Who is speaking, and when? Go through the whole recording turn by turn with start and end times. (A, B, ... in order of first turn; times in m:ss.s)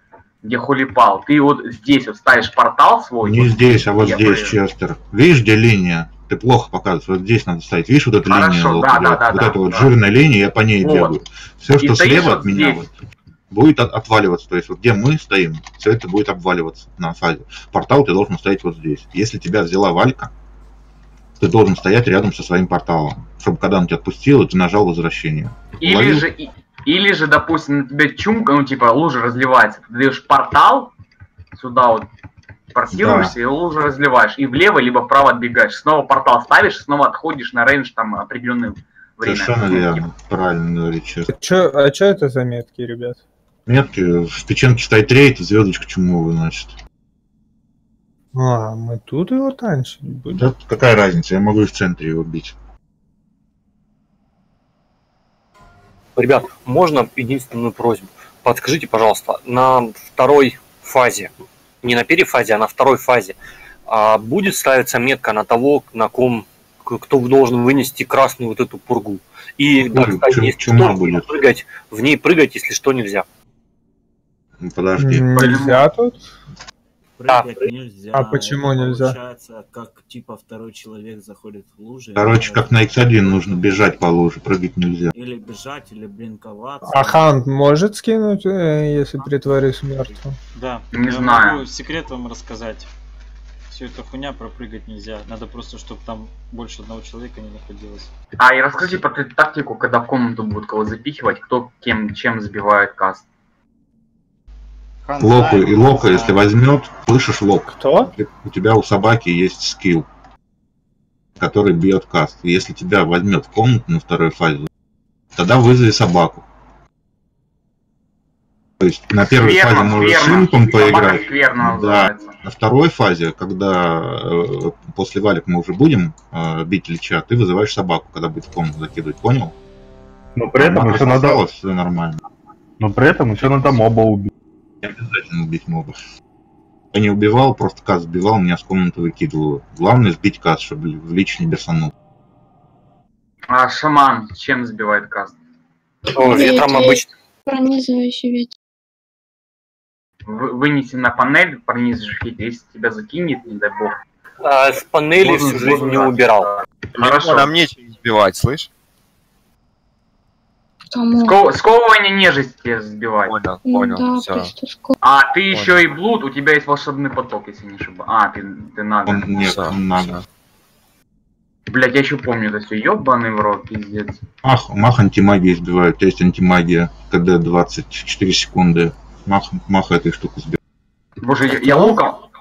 0:00.4-0:04.6 A
0:03.2-0:12.9 B
0:08.3-0:09.9 A
0:10.8-0:11.1 A
0:11.8-0:12.8 A
0:13.5-0:20.3 B
0:21.4-0:26.3 B
0:25.8-0:30.9 A
0:31.6-0:32.1 A
0:32.7-0:40.0 A
0:32.9-0:33.3 B
0:39.2-0:41.3 B
0:41.3-0:43.2 C
0:43.7-0:46.8 B
0:48.3-0:50.5 C
0:50.3-0:52.6 B
0:56.2-1:01.3 D
1:01.8-1:13.2 D
1:09.8-1:11.3 B
1:14.6-1:15.7 B
1:15.0-1:16.3 C
1:17.2-1:23.6 E
1:17.3-1:17.6 D
1:18.1-1:19.2 C
1:22.2-1:25.1 B
1:25.1-1:27.2 E
1:26.8-1:30.4 C
1:29.2-1:30.2 E
1:30.5-1:32.9 F
1:30.9-1:31.6 A
1:33.7-1:38.1 F
1:38.4-1:43.2 A
1:45.0-1:46.4 F
1:45.2-1:50.1 B
1:47.8-1:48.1 C
1:51.4-1:54.7 B
1:55.3-1:56.5 B
1:58.8-2:09.6 B
1:59.3-2:02.4 A
2:10.4-2:11.4 G
2:10.6-2:12.2 B
2:12.8-2:14.3 G
2:14.8-2:16.0 B
2:16.9-2:21.9 B
2:23.5-2:25.4 A
2:26.1-2:28.5 H
2:26.1-2:27.1 D
2:30.3-2:33.9 A
2:34.4-2:36.5 D
2:35.2-2:36.2 A
2:35.4-2:35.7 F
2:36.9-2:38.7 I
2:36.9-2:37.5 A
2:40.9-2:41.4 H
2:41.2-2:43.4 A
2:43.3-2:44.5 I
2:43.6-2:44.9 H
2:45.0-2:49.3 A
2:45.5-2:45.8 I
2:49.1-2:50.2 B
2:49.4-2:50.2 I
2:51.7-2:54.2 A
2:54.4-3:00.6 B
3:01.2-3:02.2 A
3:01.6-3:02.0 C